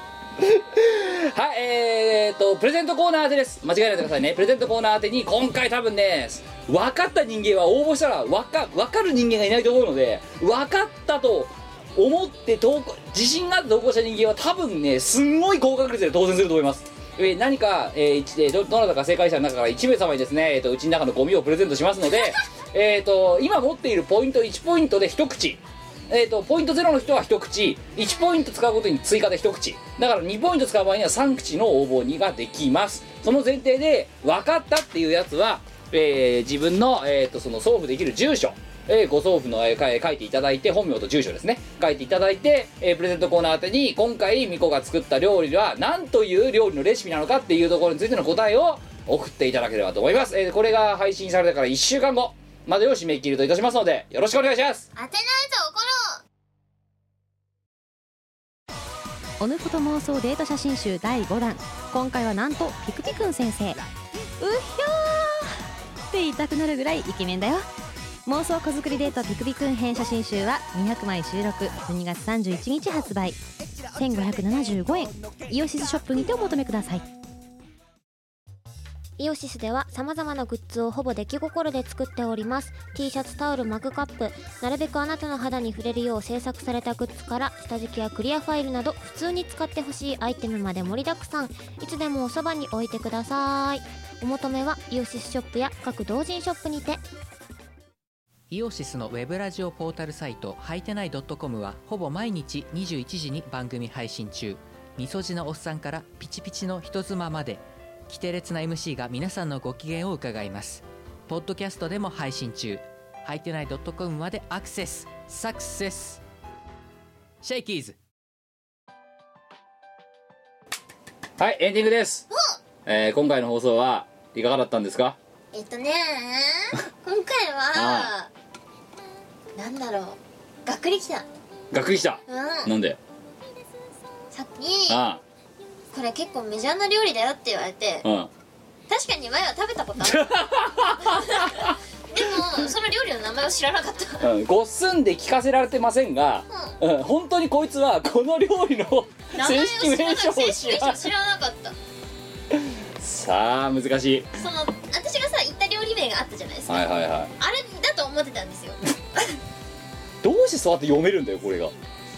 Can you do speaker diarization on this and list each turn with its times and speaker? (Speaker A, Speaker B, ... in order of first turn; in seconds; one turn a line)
Speaker A: 0.4-54.9
Speaker B: 54.9-56.2
Speaker C: 59.4-63.8
Speaker C: 64.4-65.5
Speaker C: 66.1-67.7
Speaker C: 68.2-73.4
Speaker C: 73.9-77.0
Speaker D: 79.2-97.0
Speaker E: 98.5-116.2
Speaker E: 117.4-118.0
Speaker A: 121.4-122.3
Speaker B: 122.3-122.5
Speaker A: 122.8-125.2
Speaker B: 125.5-128.3
Speaker A: 127.7-128.1
Speaker B: 129.5-131.3
Speaker A: 131.7-133.0
Speaker B: 132.3-132.7
Speaker B: 134.3-135.0
Speaker A: 134.9-135.2
Speaker B: 135.9-138.1
Speaker A: 138.0-138.3
Speaker B: 138.9-144.3
Speaker A: 140.0-141.8
Speaker A: 144.2-151.0
Speaker B: 146.5-146.8
Speaker B: 149.3-151.8
Speaker A: 152.5-154.3
Speaker B: 154.3-156.9
Speaker A: 156.7-157.3
Speaker B: 157.4-159.3
Speaker A: 160.2-161.7